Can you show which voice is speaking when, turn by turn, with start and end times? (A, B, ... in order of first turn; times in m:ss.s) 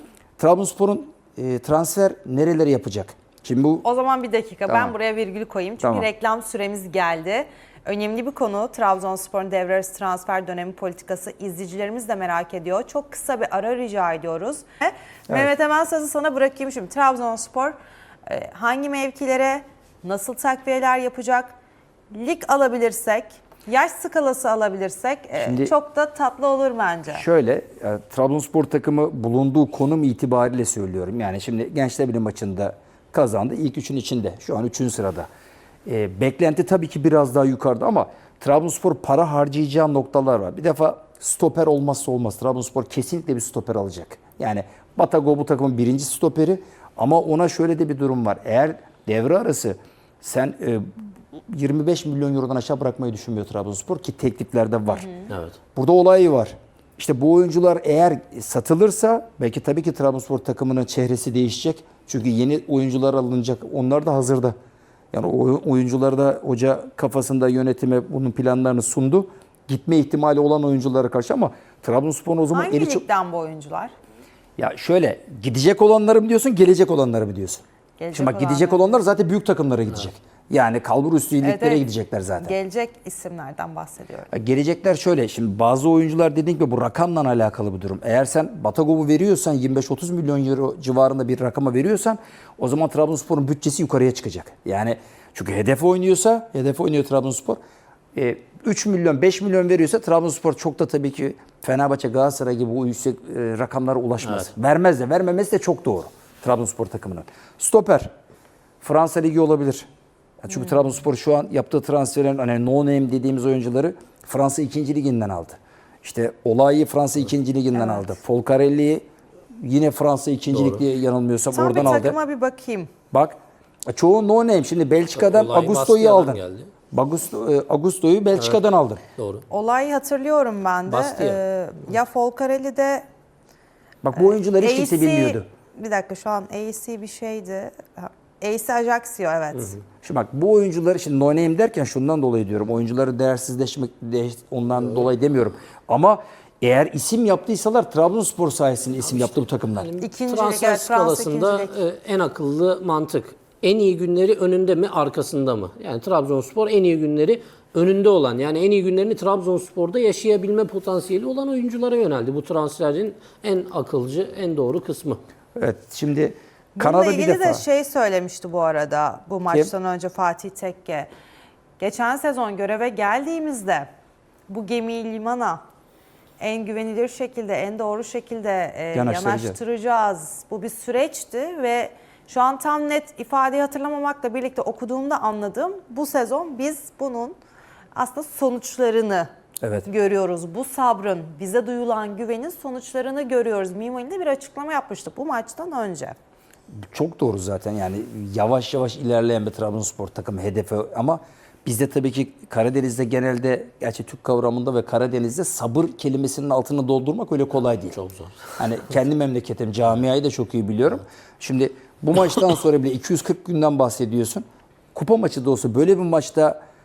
0:00.4-0:03.8 A
0:03.8-0:21.5 B
0:04.7-0:04.9 A
0:05.8-0:06.1 A
0:22.1-0:27.2 B
0:25.4-0:25.7 A
0:27.1-0:35.3 A
0:35.8-0:55.1 A
0:54.9-0:55.3 B
0:55.3-0:55.6 C
0:55.7-1:04.5 A
1:05.1-1:13.0 A
1:12.5-1:13.9 B
1:14.6-1:22.5 A
1:18.0-1:19.0 B
1:21.4-1:21.8 B
1:22.4-1:24.3 B
1:24.3-1:37.6 A
1:38.1-1:48.1 A
1:44.2-1:44.5 C
1:48.8-1:49.9 A
1:50.4-1:59.0 A
1:57.7-1:58.1 B
1:59.6-2:02.2 A
2:00.5-2:00.8 C
2:01.5-2:02.9 B
2:03.9-2:09.0 A
2:05.1-2:06.7 C
2:08.4-2:08.6 C
2:09.2-2:09.4 C
2:09.5-2:13.0 B
2:10.9-2:11.4 C
2:14.0-2:15.4 A
2:14.2-2:19.8 B
2:20.0-2:29.9 A
2:29.0-2:45.2 C
2:30.0-2:31.7 B
2:45.6-2:47.6 A
2:46.8-2:51.1 B
2:51.8-2:53.9 B
2:54.5-2:55.6 B
2:56.4-3:07.4 B
2:58.9-2:59.6 A
3:07.9-3:09.3 B
3:09.6-3:09.9 A
3:09.8-3:16.2 B
3:16.7-3:28.0 A
3:27.7-3:28.5 C
3:28.6-3:36.6 A